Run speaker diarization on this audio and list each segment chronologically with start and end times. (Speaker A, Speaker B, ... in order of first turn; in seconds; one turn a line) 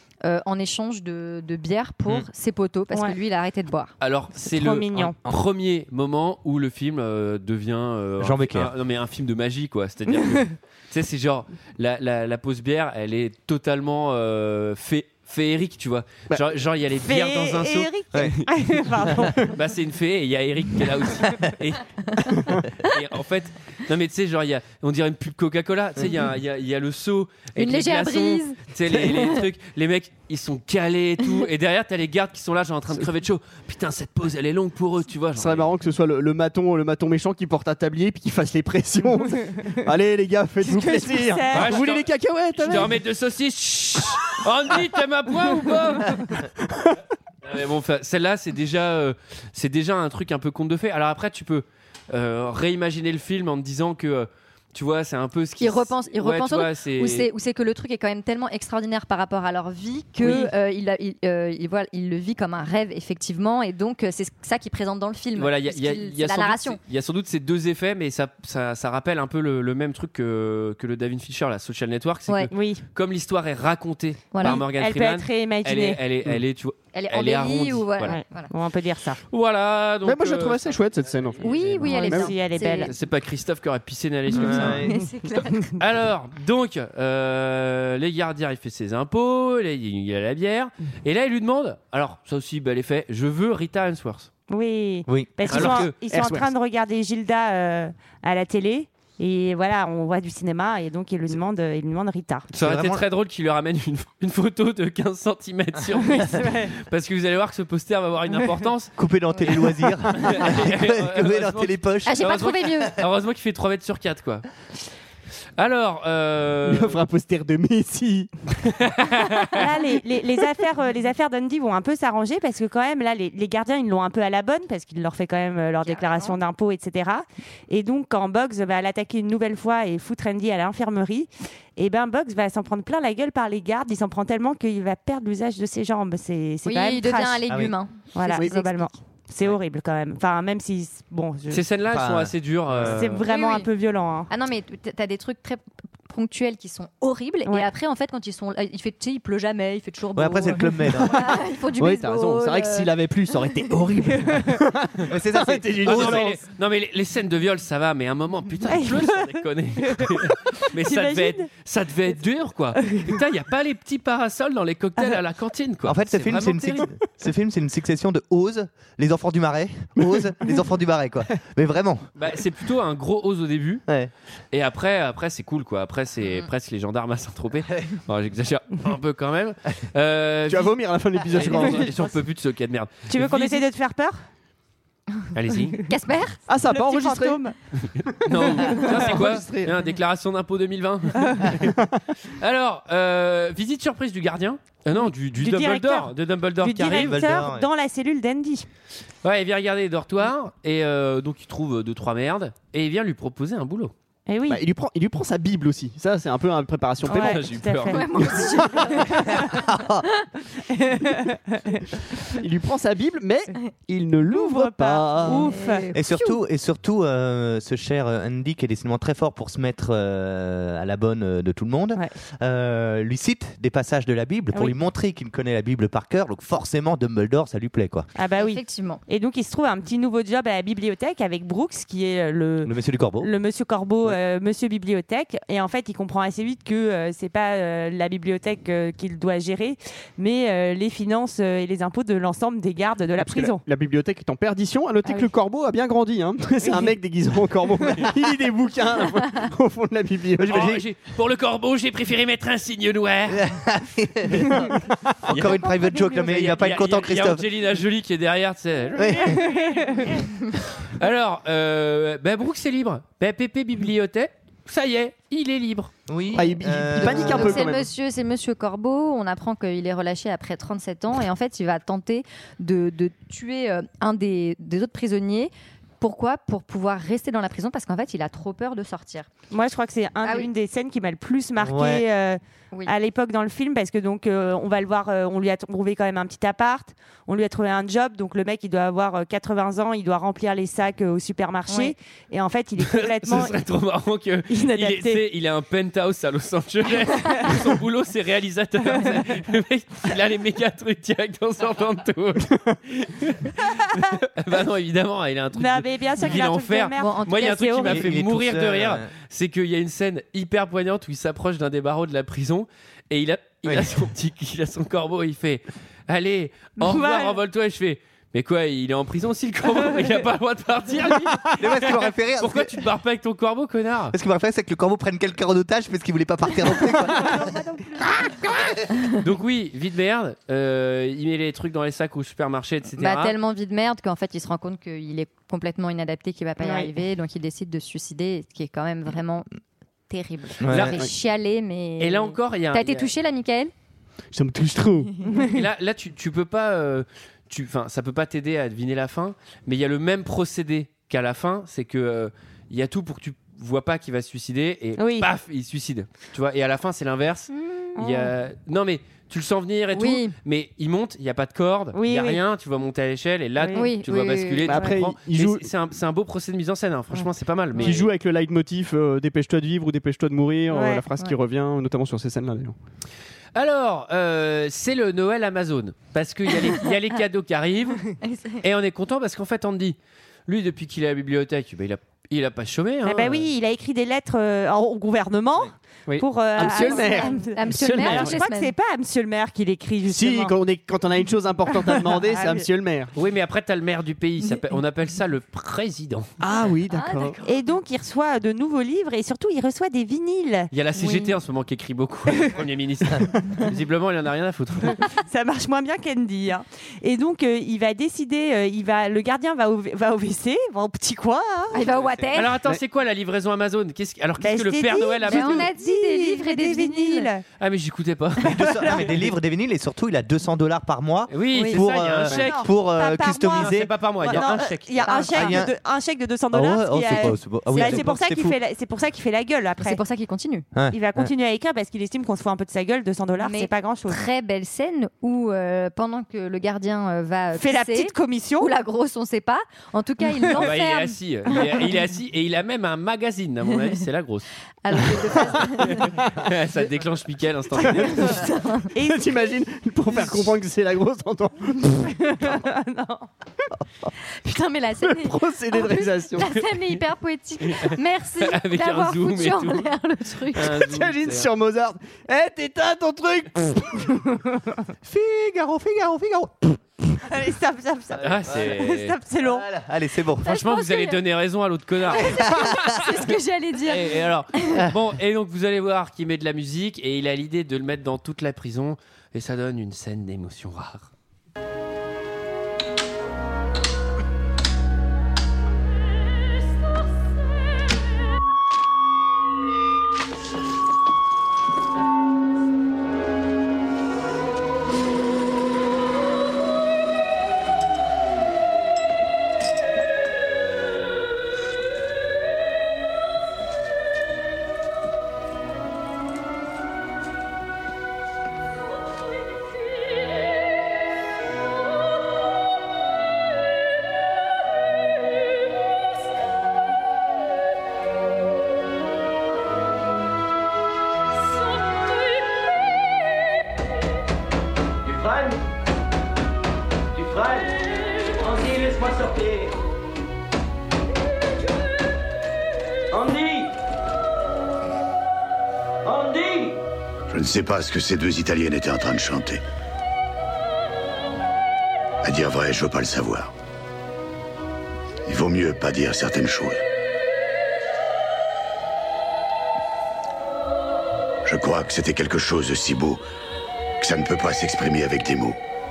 Speaker A: 0.2-3.9
Speaker B: 2.9-3.2
Speaker C: 4.0-18.5
Speaker B: 4.4-5.1
Speaker D: 8.2-8.7
Speaker B: 17.0-19.5
Speaker C: 19.4-35.7
Speaker E: 22.3-22.6
Speaker A: 27.5-29.4
Speaker E: 35.4-43.0
Speaker B: 40.6-41.8
Speaker C: 41.5-46.4
Speaker E: 46.6-47.0
Speaker C: 47.4-57.3
Speaker A: 55.6-66.8
Speaker C: 60.2-60.5
Speaker C: 65.3-78.2
Speaker B: 72.5-72.8
Speaker A: 74.3-74.6
Speaker B: 74.4-76.0
Speaker A: 76.9-78.5
Speaker B: 78.0-79.2
Speaker C: 79.3-82.1
Speaker E: 80.0-82.3
Speaker A: 81.4-82.9
Speaker B: 81.9-82.9
Speaker C: 82.8-84.9
Speaker A: 84.3-85.8
Speaker D: 84.3-85.0
Speaker C: 85.8-94.3
Speaker B: 94.5-102.5
Speaker D: 95.1-95.6
Speaker C: 95.5-95.9
Speaker E: 95.5-96.5
Speaker C: 102.5-108.9
Speaker D: 102.6-103.0
Speaker B: 106.1-106.7
Speaker D: 109.0-112.6
Speaker C: 110.1-114.4
Speaker A: 112.0-113.0
Speaker C: 115.6-117.0
Speaker E: 116.7-118.3
Speaker C: 118.6-119.6
Speaker B: 119.5-137.4
Speaker A: 125.8-126.4
Speaker A: 136.6-138.9
Speaker D: 137.5-137.7
Speaker B: 138.1-141.6
Speaker C: 141.5-143.2
Speaker D: 141.9-143.0
Speaker B: 142.9-144.3
Speaker A: 143.3-143.7
Speaker A: 144.3-152.9
Speaker D: 150.1-151.4
Speaker E: 151.8-156.4
Speaker D: 155.1-156.3
Speaker C: 155.8-166.9
Speaker B: 158.7-160.2
Speaker B: 160.7-161.5
Speaker B: 162.8-163.1
Speaker D: 165.8-172.1
Speaker C: 172.2-173.8
Speaker C: 174.5-183.6
Speaker E: 180.5-182.1
Speaker B: 183.1-184.2
Speaker C: 185.3-185.8
Speaker A: 185.9-186.4
Speaker E: 186.5-187.4
Speaker B: 186.7-187.6
Speaker C: 187.8-191.8
Speaker E: 188.2-189.8
Speaker E: 191.6-191.9
Speaker C: 192.3-197.2
Speaker B: 195.4-198.7
Speaker D: 196.8-197.7
Speaker C: 199.2-203.9
Speaker B: 204.3-204.6
Speaker E: 204.5-207.5
Speaker C: 207.1-208.0
Speaker B: 207.1-209.3
Speaker A: 207.9-209.8
Speaker E: 208.3-208.8
Speaker D: 209.3-210.1
Speaker B: 211.2-211.8
Speaker E: 212.4-215.6
Speaker B: 214.3-215.9
Speaker A: 215.2-216.4
Speaker D: 215.9-228.1
Speaker B: 228.1-243.6
Speaker A: 228.4-229.0
Speaker D: 232.6-233.3
Speaker E: 243.2-250.7
Speaker B: 246.6-246.9
Speaker D: 250.4-250.8
Speaker C: 250.4-253.5
Speaker D: 253.3-254.7
Speaker C: 255.3-260.1
Speaker D: 255.3-257.4
Speaker D: 258.9-259.4
Speaker B: 259.3-260.1
Speaker C: 260.8-265.9
Speaker D: 266.1-267.6
Speaker E: 266.3-267.9
Speaker A: 267.0-279.3
Speaker B: 279.5-293.6
Speaker D: 281.6-282.0
Speaker A: 291.7-291.9
Speaker C: 292.8-324.1
Speaker B: 294.5-295.2
Speaker B: 305.5-308.0
Speaker A: 307.0-308.0
Speaker D: 307.8-309.1
Speaker D: 313.6-313.9
Speaker B: 316.8-317.4
Speaker D: 321.6-322.9
Speaker D: 324.1-327.5
Speaker D: 328.3-328.7
Speaker C: 329.2-333.3
Speaker A: 333.0-339.5
Speaker B: 336.6-336.9
Speaker A: 340.1-343.7
Speaker D: 340.6-341.0
Speaker C: 340.7-341.0
Speaker C: 342.0-343.1
Speaker E: 344.3-345.1
Speaker B: 345.3-345.5
Speaker C: 345.5-368.1
Speaker B: 355.0-355.3
Speaker A: 357.6-357.9
Speaker B: 357.9-358.3
Speaker A: 359.9-360.3
Speaker B: 361.9-362.4
Speaker B: 363.6-363.9
Speaker A: 363.7-364.8
Speaker E: 364.7-365.7
Speaker E: 367.8-372.7
Speaker B: 370.7-371.0
Speaker C: 373.5-383.5
Speaker A: 378.2-378.6
Speaker B: 383.0-390.5
Speaker E: 386.1-388.4
Speaker A: 386.6-388.7
Speaker E: 390.1-393.1
Speaker B: 391.7-392.6
Speaker C: 393.1-396.3
Speaker E: 396.4-397.4
Speaker A: 396.9-397.5
Speaker B: 397.4-400.7
Speaker C: 400.7-405.0
Speaker A: 401.0-401.4
Speaker B: 405.2-411.9
Speaker A: 411.7-412.6
Speaker D: 412.0-412.2
Speaker C: 412.3-415.7
Speaker B: 414.4-417.4
Speaker A: 415.2-417.3
Speaker C: 417.6-418.6
Speaker B: 418.4-419.3
Speaker D: 418.5-424.4
Speaker C: 421.3-422.7
Speaker B: 422.3-430.0
Speaker C: 423.5-425.0
Speaker A: 425.0-425.6
Speaker D: 425.3-425.7
Speaker D: 426.5-428.6
Speaker A: 427.1-428.0
Speaker A: 429.8-430.7
Speaker D: 430.7-431.3
Speaker B: 430.9-434.2
Speaker A: 433.4-441.9
Speaker B: 437.5-438.7
Speaker C: 440.6-444.5
Speaker A: 444.8-446.1
Speaker C: 445.3-448.3
Speaker A: 447.8-448.9
Speaker E: 447.8-448.4
Speaker B: 448.9-449.5
Speaker E: 449.0-452.1
Speaker B: 452.1-453.3
Speaker A: 454.4-460.8
Speaker E: 455.0-456.6
Speaker C: 457.6-459.9
Speaker C: 460.5-461.5
Speaker E: 460.7-464.2
Speaker D: 465.0-466.8
Speaker B: 467.2-469.7
Speaker C: 468.2-469.1
Speaker D: 468.2-468.8
Speaker D: 469.4-470.6
Speaker A: 470.4-471.2
Speaker C: 470.4-472.5
Speaker A: 472.1-474.9
Speaker D: 472.3-472.9
Speaker C: 473.9-481.1
Speaker F: 525.0-525.6
Speaker F: 527.1-527.7
Speaker F: 528.3-529.7
Speaker F: 533.1-533.7
Speaker F: 536.0-536.8
Speaker G: 537.3-539.6
Speaker G: 542.2-543.5
Speaker G: 545.2-546.8
Speaker G: 551.5-553.2
Speaker G: 554.0-555.6